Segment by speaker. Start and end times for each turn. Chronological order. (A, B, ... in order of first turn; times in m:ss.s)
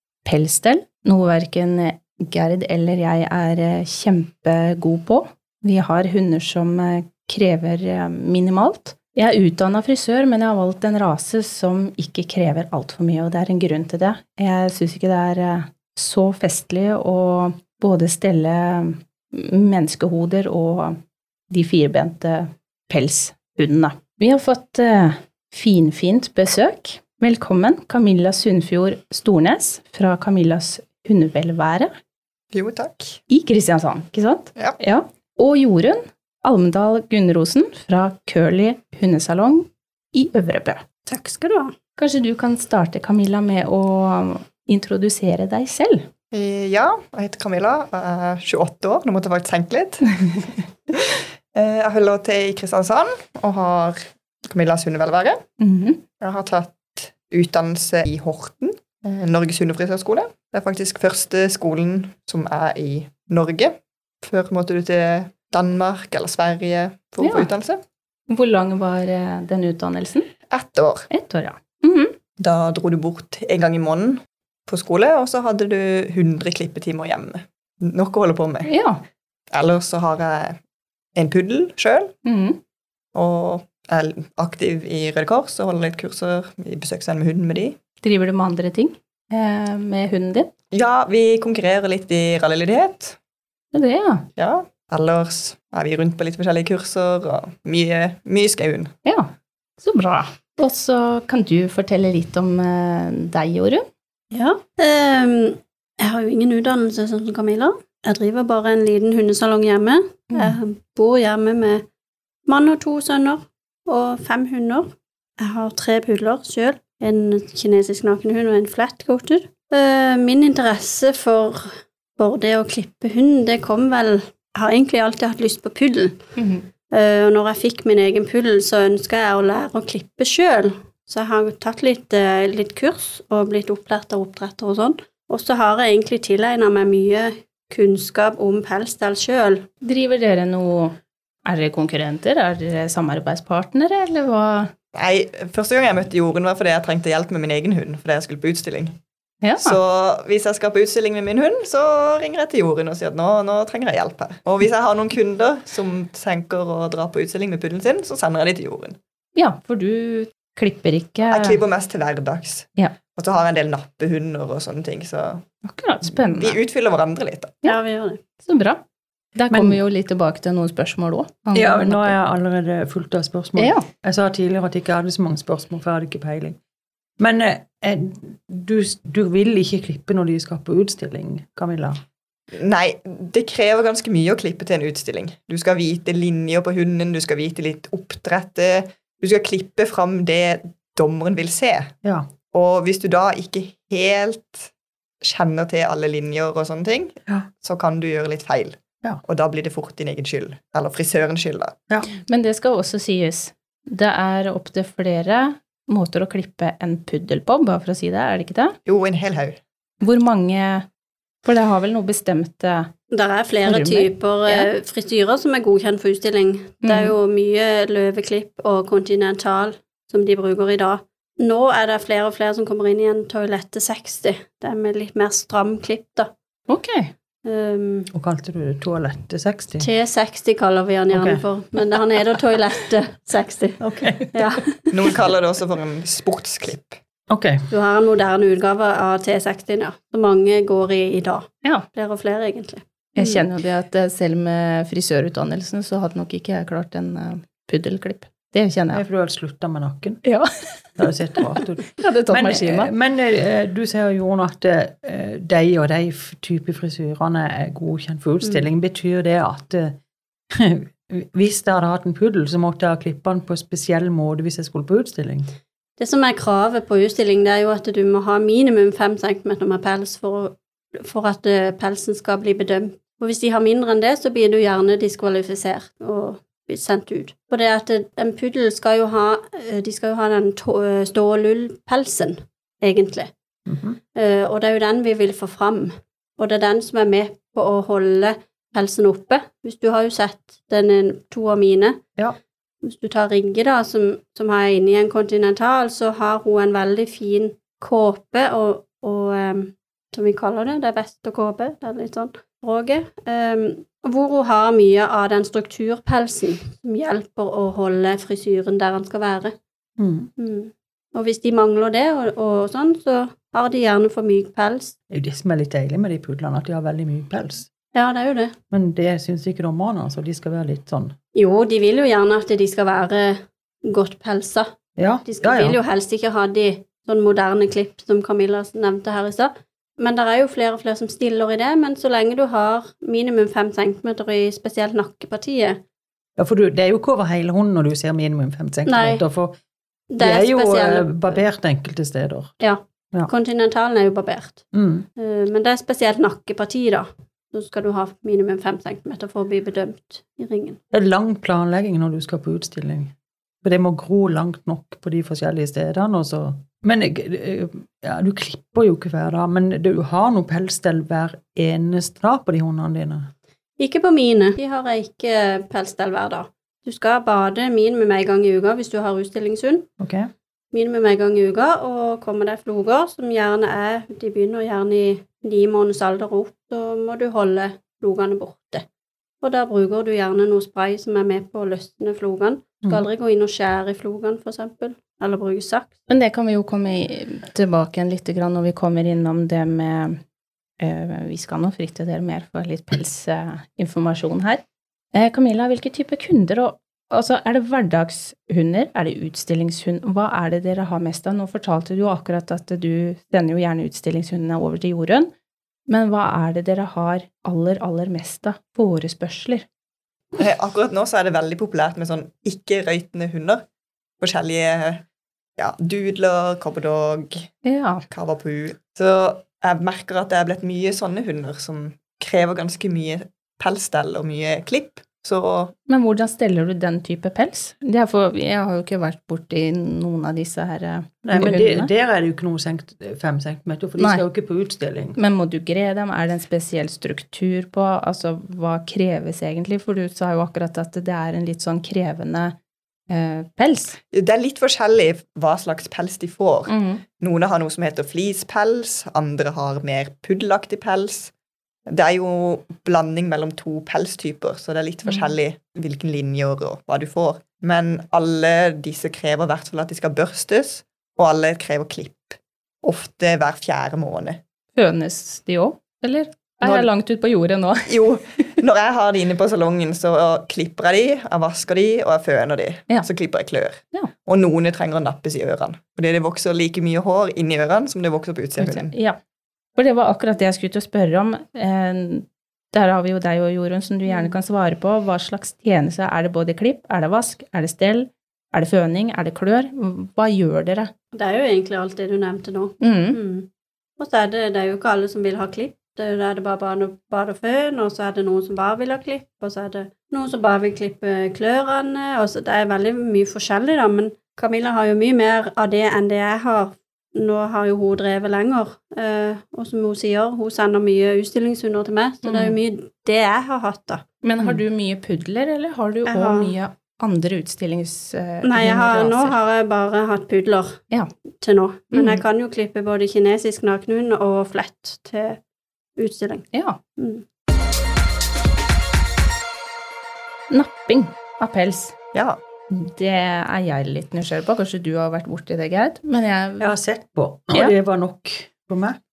0:00.2-0:21.0 A
0:21.5-0:31.9 A
0:32.5-0:33.2 B
0:33.3-0:40.8 A
0:41.1-0:41.8 C
0:42.0-0:46.1 A
0:46.3-0:55.4 B
0:55.6-0:56.0 A
0:56.2-1:07.8 B
1:07.2-1:07.5 A
1:08.3-1:10.3 A
1:10.5-1:11.1 B
1:11.1-1:12.2 A
1:12.4-1:18.7 B
1:18.6-1:19.0 A
1:19.5-1:20.6 B
1:21.2-1:22.1 B
1:22.2-1:22.6 A
1:23.2-1:27.8 B
1:28.0-1:30.5 A
1:30.7-1:33.2 B
1:33.7-1:34.2 A
1:34.4-1:38.9 B
1:39.0-1:43.9 A
1:44.3-1:51.8 C
1:50.3-1:50.6 A
1:52.5-2:06.2 C
2:06.4-2:06.7 A
2:06.9-2:19.7 C
2:19.8-2:24.7 A
2:24.9-2:29.0 B
2:29.4-2:29.8 A
2:29.6-2:39.0 B
2:39.4-2:41.6 A
2:41.3-2:45.5 B
2:45.6-2:46.6 A
2:46.0-2:47.6 B
2:47.6-2:48.2 C
2:48.4-2:48.8 A
2:49.4-2:52.2 A
2:49.5-2:49.8 D
2:51.6-2:56.6 D
2:53.6-2:53.9 A
2:57.2-3:02.0 D
3:02.5-3:12.0 B
3:12.5-3:14.7 B
3:15.2-3:21.7 B
3:22.2-3:28.8 A
3:28.9-3:29.6 B
3:30.0-3:30.9 A
3:31.4-3:32.9 A
3:33.1-3:46.3 C
3:33.6-3:34.7 A
3:36.8-3:37.1 A
3:46.7-3:47.1 A
3:47.4-3:48.1 C
3:48.1-3:49.9 D
3:49.8-3:54.8 C
3:51.1-3:51.4 D
3:53.8-3:54.4 D
3:54.9-3:57.0 B
3:57.3-3:57.7 D
3:57.7-4:03.4 C
4:03.2-4:09.0 A
4:08.9-4:10.2 D
4:10.2-4:12.9 A
4:11.0-4:20.0 D
4:20.5-4:25.6 D
4:26.0-4:43.3 C
4:43.7-4:44.0 D
4:44.1-4:52.0 C
4:52.8-5:09.6 C
5:10.0-5:10.3 D
5:10.4-5:15.0 C
5:15.1-5:17.7 D
5:17.9-5:18.6 C
5:18.7-5:21.2 D
5:21.4-5:35.8 C
5:25.0-5:25.8 D
5:36.4-5:39.6 D
5:38.9-5:39.2 C
5:40.1-5:41.4 C
5:40.2-5:42.6 D
5:42.6-5:44.6 C
5:44.7-5:45.1 D
5:45.2-5:50.8 C
5:50.9-6:03.3 D
6:03.8-6:09.9 C
6:10.0-6:10.3 D
6:10.7-6:18.9 C
6:19.4-6:25.9 C
6:26.1-6:30.2 A
6:30.8-6:34.6 A
6:35.1-6:45.3 A
6:45.9-6:49.7 A
6:50.4-6:53.6 B
6:54.2-6:55.0 B
6:55.6-6:57.6 B
6:57.6-6:58.0 A
6:58.1-7:05.8 B
7:05.9-7:11.9 A
7:11.2-7:15.2 D
7:14.0-7:14.2 A
7:15.2-7:22.6 A
7:23.1-7:24.0 A
7:24.1-7:31.3 B
7:26.7-7:27.0 A
7:31.9-7:44.4 B
7:35.1-7:35.3 A
7:44.8-7:48.5 A
7:46.6-7:46.9 B
7:47.9-7:58.9 B
7:58.6-7:59.2 A
7:59.8-8:10.9 A
8:11.1-8:34.0 C
8:12.8-8:13.2 A
8:32.2-8:32.6 A
8:34.2-8:39.4 A
8:36.1-8:36.5 C
8:38.4-8:40.8 C
8:41.4-8:45.4 C
8:41.9-8:42.2 A
8:46.0-8:47.2 C
8:46.5-8:46.8 A
8:50.5-8:52.0 A
8:52.1-8:52.4 B
8:52.7-8:56.7 A
8:56.6-8:59.0 D